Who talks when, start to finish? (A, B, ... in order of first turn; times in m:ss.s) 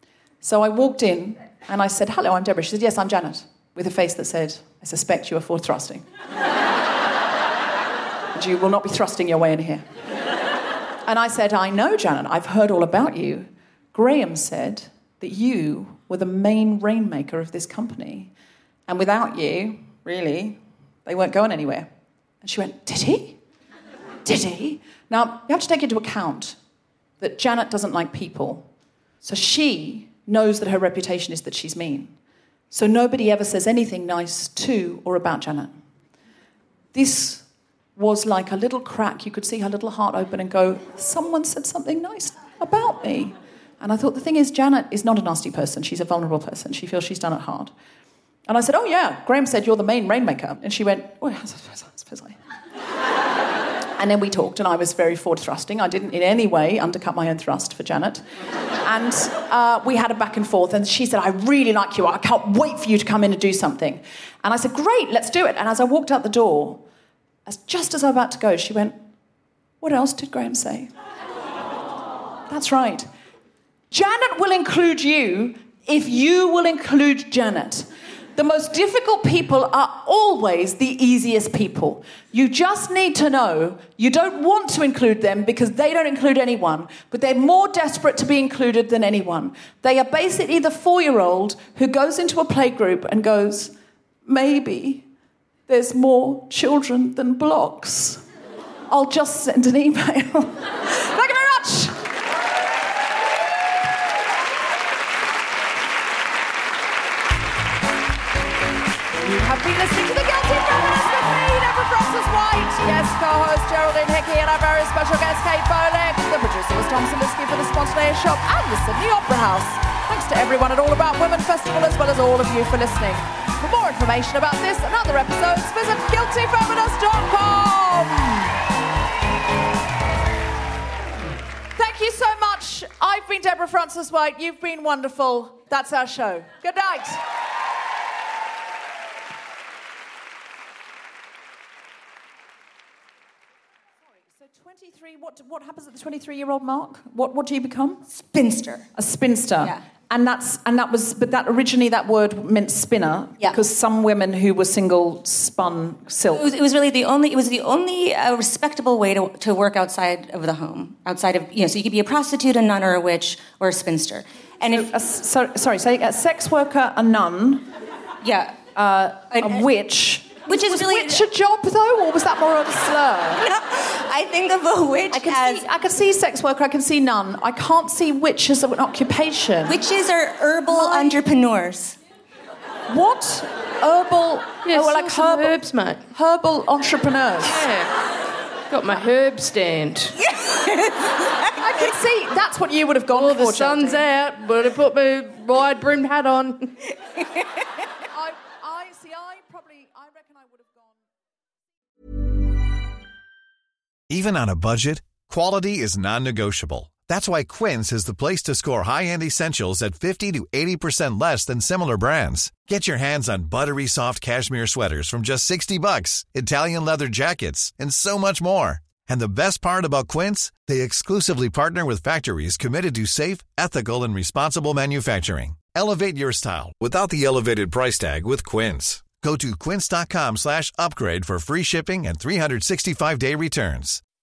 0:00.4-0:06.0 A
0:08.3-0:09.8 A
0:11.0-0:18.3 A
0:18.9-0:21.9 A
0:22.4-0:23.4 A
0:24.2-0:26.6 A
0:27.2-0:28.7 A
0:29.2-0:32.1 A
0:32.7-0:35.8 A
0:36.9-0:37.4 A
0:38.0-0:47.7 A
0:48.5-0:52.4 A
0:54.0-0:58.2 A
0:58.8-1:06.8 A
1:07.4-1:09.0 A
1:09.8-1:10.9 A
1:12.5-1:13.1 A
1:13.9-1:33.7 A
1:34.2-1:35.0 A
1:35.7-1:38.2 A
1:38.9-1:42.0 A
1:49.2-2:08.6 A
2:11.8-2:17.2 A
2:24.4-2:28.0 A
2:28.1-2:28.8 B
2:29.0-2:36.4 A
2:36.3-2:44.9 B
2:44.7-2:47.6 A
2:48.2-2:48.6 B
2:48.7-2:53.4 A
2:49.3-2:49.7 B
2:50.4-2:51.2 B
2:53.4-2:55.6 B
2:55.1-2:59.8 A
2:59.6-3:02.0 B
3:00.7-3:01.2 A
3:02.9-3:05.6 A
3:04.6-3:06.0 C
3:06.1-3:07.6 A
3:07.4-3:07.9 C
3:08.7-3:10.1 C
3:10.2-3:11.9 B
3:11.6-3:14.0 A
3:13.1-3:16.9 C
3:18.1-3:20.9 A
3:24.1-3:54.0 D